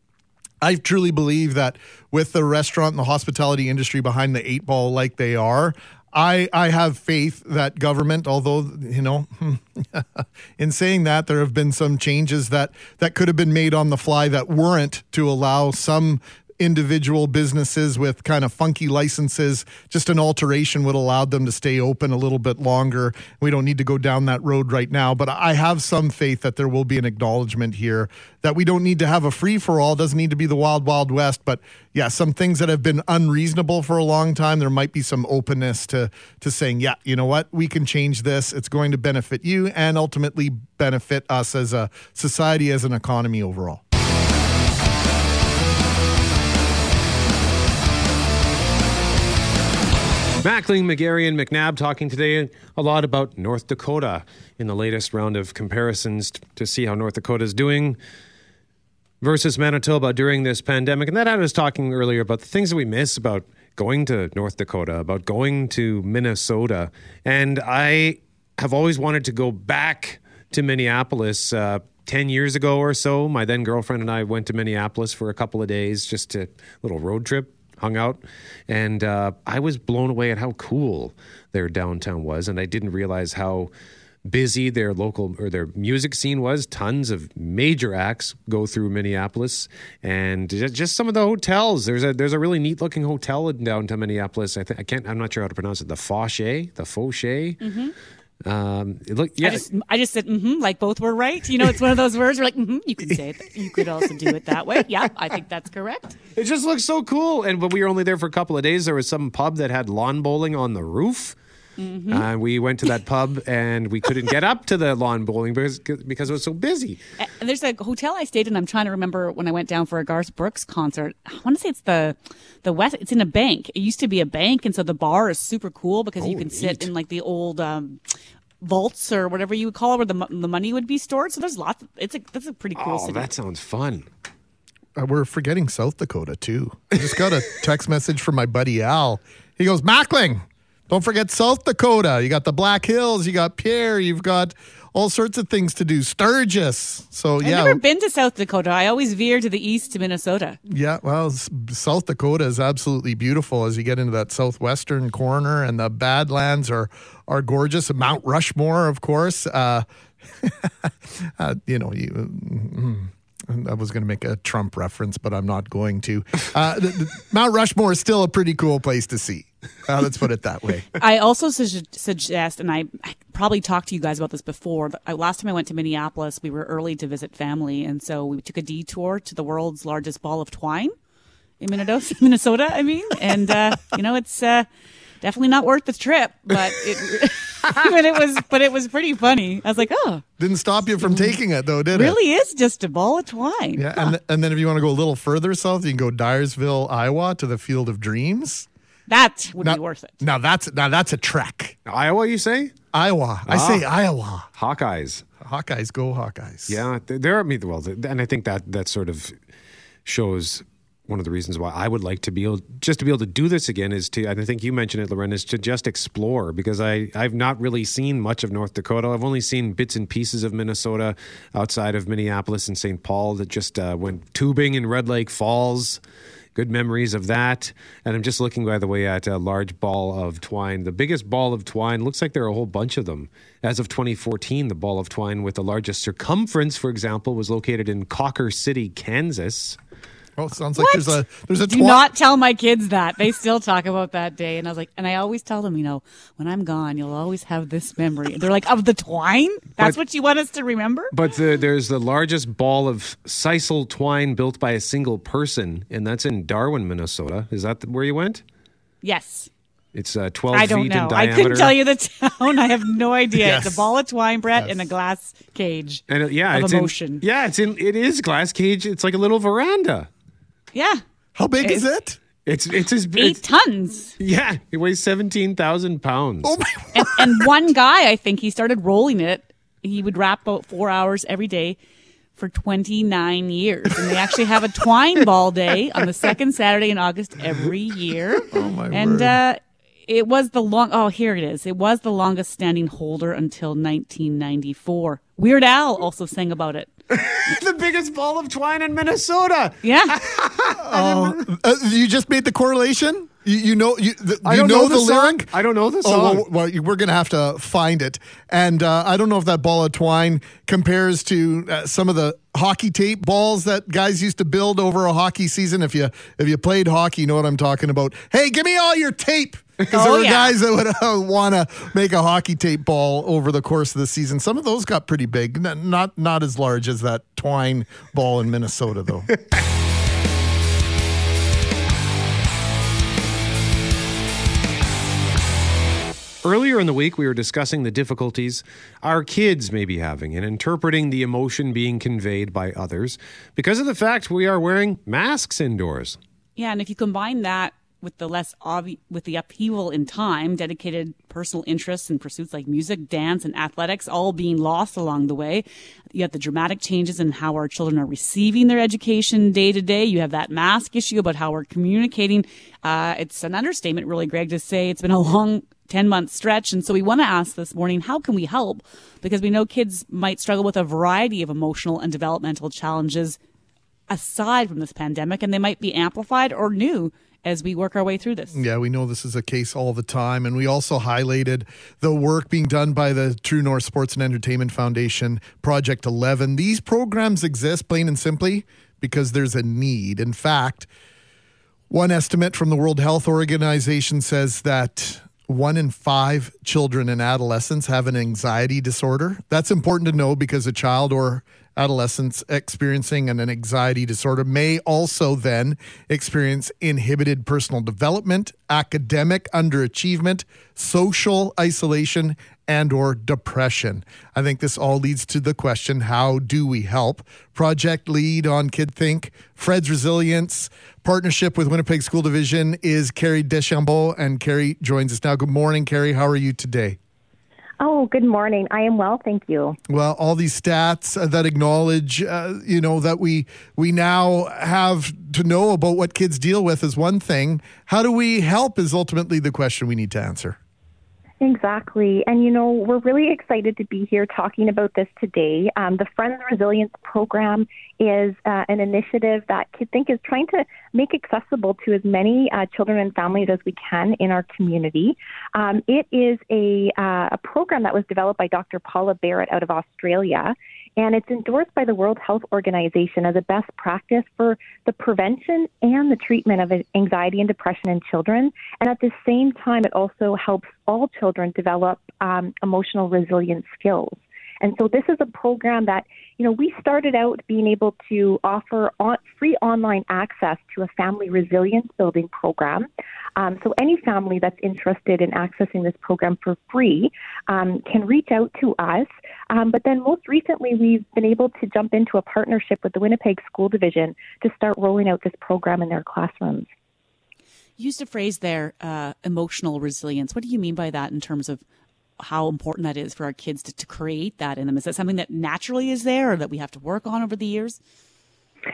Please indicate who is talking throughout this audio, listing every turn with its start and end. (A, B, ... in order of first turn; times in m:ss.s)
0:00.6-0:43.8 A
0:50.4-0:58.0 B
0:59.2-1:23.7 B
1:24.2-1:37.6 B
1:37.6-1:37.9 C
1:38.4-1:39.6 B
1:39.4-1:46.2 C
1:46.4-1:51.4 B
1:51.8-1:52.2 C
1:52.1-1:57.0 B
1:57.2-2:08.0 C
2:06.2-2:06.9 B
2:08.6-2:13.3 C
2:12.8-2:14.1 B
2:15.0-2:27.8 A
2:27.4-2:30.6 C
2:30.7-2:39.8 A
2:40.4-2:50.9 A
2:51.0-3:00.9 C
3:01.6-3:04.6 C
3:05.2-3:10.2 C
3:10.4-3:12.2 A
3:11.0-3:11.3 C
3:11.9-3:14.1 C
3:13.8-3:18.7 A
3:19.1-3:20.2 C
3:19.6-3:21.8 A
3:21.8-3:22.7 B
3:22.9-3:24.5 A
3:23.5-3:23.8 B
3:24.5-3:25.2 B
3:25.4-3:26.8 A
3:26.7-3:29.3 B
3:30.0-3:46.0 B
3:46.5-3:59.8 B
4:00.4-4:02.1 A
4:00.8-4:11.1 C
4:11.1-4:18.4 B
4:19.0-4:19.5 C
4:19.9-4:21.8 B
4:20.5-4:27.2 C
4:23.4-4:23.9 A
4:26.1-4:30.1 B
4:30.7-4:31.0 C
4:31.4-4:32.2 A
4:32.4-4:33.4 B
4:33.2-4:34.1 C
4:34.2-4:36.5 B
4:36.4-4:37.5 A
4:36.9-4:41.8 C
4:42.4-4:56.9 C
4:48.5-4:49.4 A
4:57.1-5:01.2 B
4:59.8-5:00.2 C
5:00.8-5:05.5 A
5:04.4-5:06.4 B
5:06.0-5:29.3 A
5:19.9-5:20.5 C
5:36.4-5:46.2 B
5:46.6-6:13.4 C
6:14.1-6:18.6 C
6:18.5-6:30.9 A
6:31.9-7:07.0 A
7:07.8-7:09.8 D
7:09.9-7:20.6 A
7:21.4-8:16.7 D
8:17.8-8:21.6 C
8:22.2-8:27.8 C